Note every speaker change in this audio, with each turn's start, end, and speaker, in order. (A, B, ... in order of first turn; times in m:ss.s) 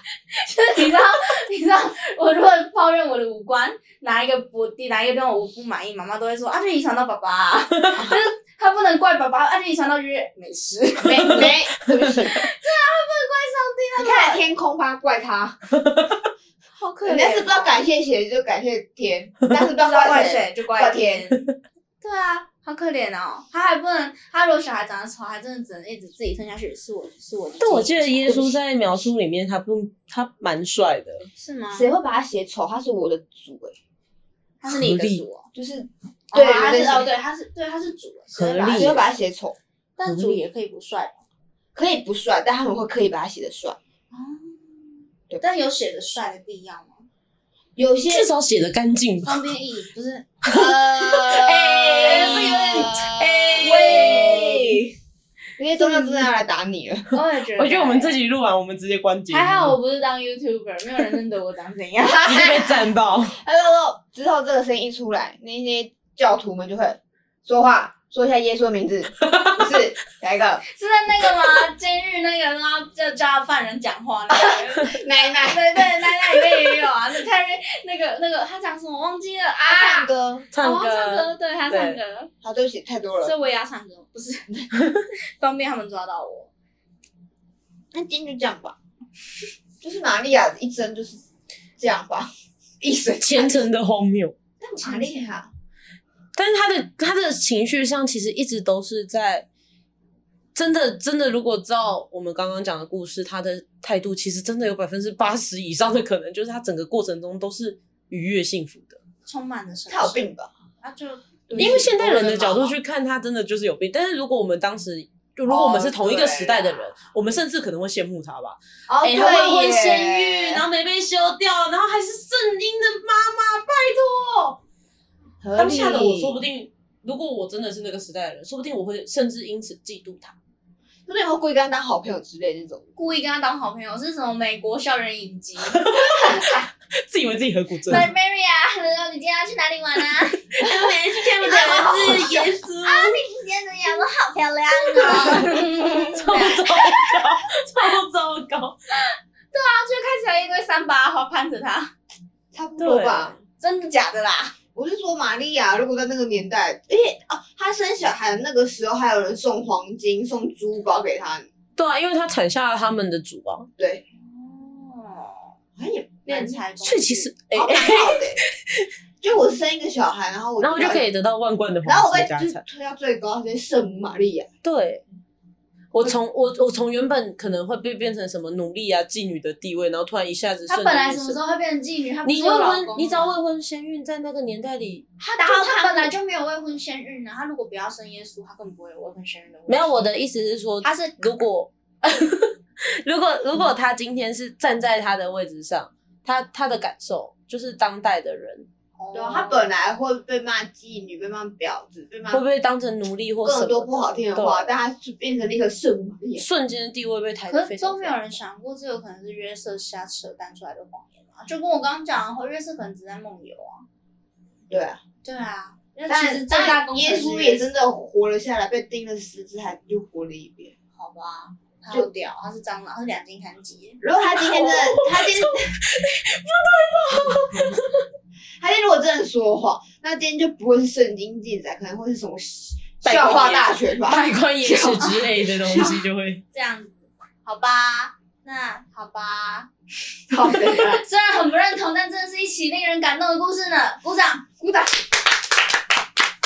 0:00.3-0:11.5 A
0:11.0-0:12.4 B
0:12.3-0:14.4 A
0:14.0-0:15.6 B
0:16.8-0:17.8 A
0:17.0-0:21.3 B
0:19.8-0:21.5 A
0:22.0-0:28.5 A
0:27.6-0:31.3 C
0:31.4-0:31.9 A
0:31.7-0:33.8 B
0:34.6-0:35.5 A
0:34.7-0:35.2 C
0:35.6-0:37.1 B
0:36.3-0:39.1 A
0:38.4-0:39.0 C
0:38.7-0:39.6 B
0:40.0-0:41.2 A
0:40.0-0:40.4 C
0:41.8-0:43.8 B
0:44.1-0:47.1 A
0:47.8-0:48.3 B
0:48.1-0:49.4 C
0:49.2-0:50.3 A
0:50.4-0:54.8 B
0:50.5-0:54.6 C
0:51.9-0:53.0 A
0:53.6-0:54.6 A
0:55.6-0:57.1 B
0:55.8-0:56.2 A
0:57.1-0:58.2 A
0:57.6-0:59.8 C
0:59.3-1:02.4 A
1:02.0-1:10.6 B
1:02.2-1:03.4 C
1:10.7-1:22.3 A
1:14.9-1:16.4 B
1:19.6-1:20.5 B
1:20.5-1:22.0 C
1:22.4-1:23.3 B
1:23.2-1:24.8 A
1:25.4-1:26.5 A
1:27.9-1:28.8 B
1:29.8-1:31.2 B
1:31.8-1:32.3 B
1:32.8-1:33.7 B
1:33.2-1:34.4 C
1:34.6-1:35.5 B
1:36.4-1:39.5 C
1:40.6-1:49.0 C
1:49.3-1:50.3 A
1:49.9-1:50.5 B
1:50.8-1:51.8 A
1:51.5-1:52.8 B
1:51.6-2:04.6 C
1:55.5-1:56.8 B
1:58.9-2:00.6 B
2:05.4-2:06.4 B
2:05.6-2:10.4 C
2:11.1-2:12.9 B
2:13.0-2:16.2 A
2:15.7-2:18.1 C
2:17.9-2:20.6 A
2:20.6-2:23.2 C
2:21.4-2:27.2 A
2:21.4-2:22.5 B
2:25.0-2:28.8 C
2:25.1-2:25.5 B
2:29.5-2:31.9 A
2:32.5-2:33.4 B
2:32.8-2:33.4 C
2:33.6-2:34.5 A
2:34.8-2:41.5 B
2:41.8-2:43.7 C
2:43.8-2:44.0 B
2:44.2-2:45.5 A
2:45.8-2:46.6 B
2:46.3-2:47.3 A
2:46.8-2:48.9 C
2:47.5-2:48.4 B
2:49.2-2:51.0 B
2:50.6-2:52.6 C
2:51.8-2:54.5 B
2:54.6-2:55.0 C
2:55.9-3:01.4 C
3:00.7-3:03.3 A
3:02.2-3:05.0 C
3:05.2-3:10.1 A
3:05.4-3:06.1 B
3:09.7-3:18.7 C
3:10.8-3:11.2 A
3:19.0-3:19.7 A
3:19.1-3:22.4 B
3:22.3-3:24.7 C
3:23.4-3:26.4 B
3:26.4-3:28.3 C
3:27.5-3:33.8 A
3:34.7-3:35.0 B
3:35.2-3:37.7 A
3:36.1-3:40.7 B
3:41.0-3:44.0 A
3:44.0-3:45.7 B
3:44.4-3:48.0 C
3:48.6-3:55.0 B
3:53.0-3:56.4 C
3:55.0-3:56.0 A
3:56.5-3:59.7 A
4:00.3-4:01.0 B
4:00.7-4:04.6 A
4:04.6-4:04.9 B